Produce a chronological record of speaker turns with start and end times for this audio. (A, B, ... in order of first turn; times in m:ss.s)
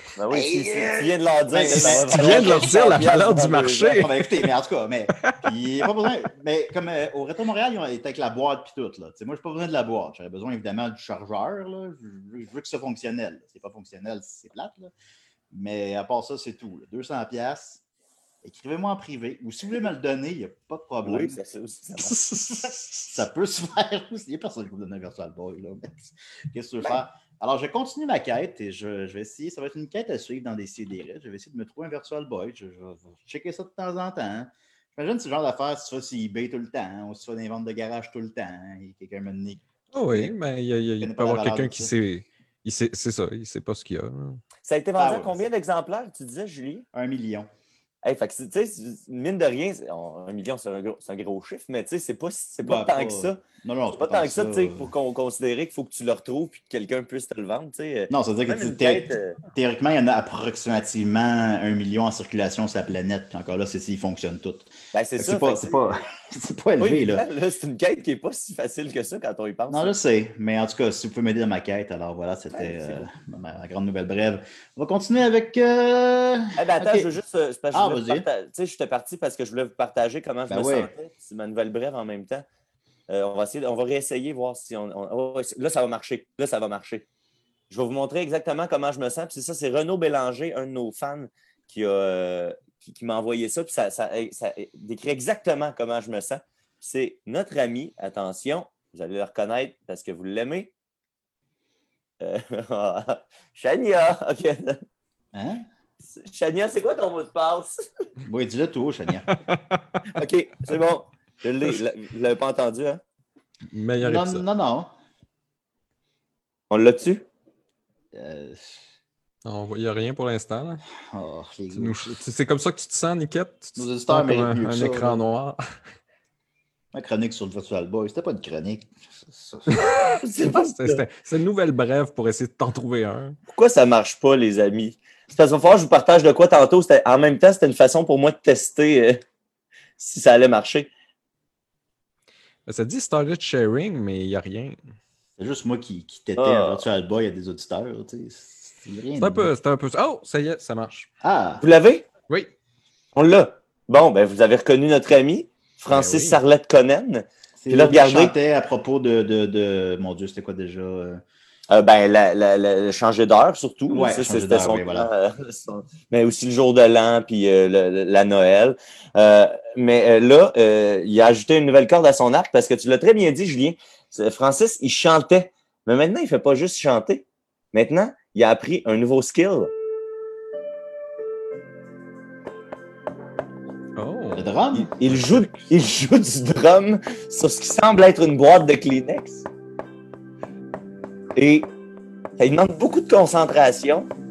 0:00.2-0:04.1 A
0:00.3-0:02.8 B
0:01.6-0:04.3 C
0:04.0-0:14.9 B
0:15.5-0:17.8 B
0:18.4-0:21.4 B
0:21.0-0:22.2 A
0:22.1-0:23.1 C
0:23.1-0:40.4 B
0:39.9-0:44.4 C
0:41.0-0:41.9 B
0:44.6-0:46.8 A
0:45.0-0:45.4 B
0:46.9-0:47.5 B
0:48.0-0:59.4 A
0:52.6-0:54.9 B
0:58.1-1:07.2 B
1:04.9-1:05.9 A
1:06.8-1:10.0 A
1:09.7-1:17.1 B
1:12.5-1:13.1 A
1:16.6-1:22.4 A
1:17.7-1:18.3 B
1:20.5-1:20.9 B
1:23.1-1:27.1 A
1:27.7-1:40.7 A
1:42.2-1:44.8 A
1:45.3-1:45.6 B
1:46.0-1:47.8 A
1:48.2-1:49.4 B
1:49.5-1:50.0 C
1:50.2-1:53.0 A
1:53.7-1:54.4 C
1:54.0-1:54.9 B
1:56.7-1:57.2 A
1:58.1-1:58.8 B
1:59.4-2:00.8 C
2:01.1-2:02.2 B
2:01.8-2:05.6 C
2:03.8-2:05.2 B
2:06.9-2:09.8 B
2:10.1-2:13.4 C
2:10.2-2:11.0 A
2:13.5-2:19.2 A
2:20.0-2:20.9 A
2:22.7-2:24.8 C
2:25.4-2:29.5 B
2:26.4-2:26.8 A
2:29.2-2:31.1 C
2:31.2-2:31.6 B
2:31.6-2:32.1 A
2:33.2-2:38.3 A
2:35.9-2:36.4 C
2:37.6-2:41.2 B
2:41.7-2:59.7 A
2:43.9-2:45.1 B
3:04.0-3:04.5 C
3:04.4-3:05.2 B
3:04.8-3:09.5 A
3:11.4-3:11.7 A
3:12.4-3:14.1 A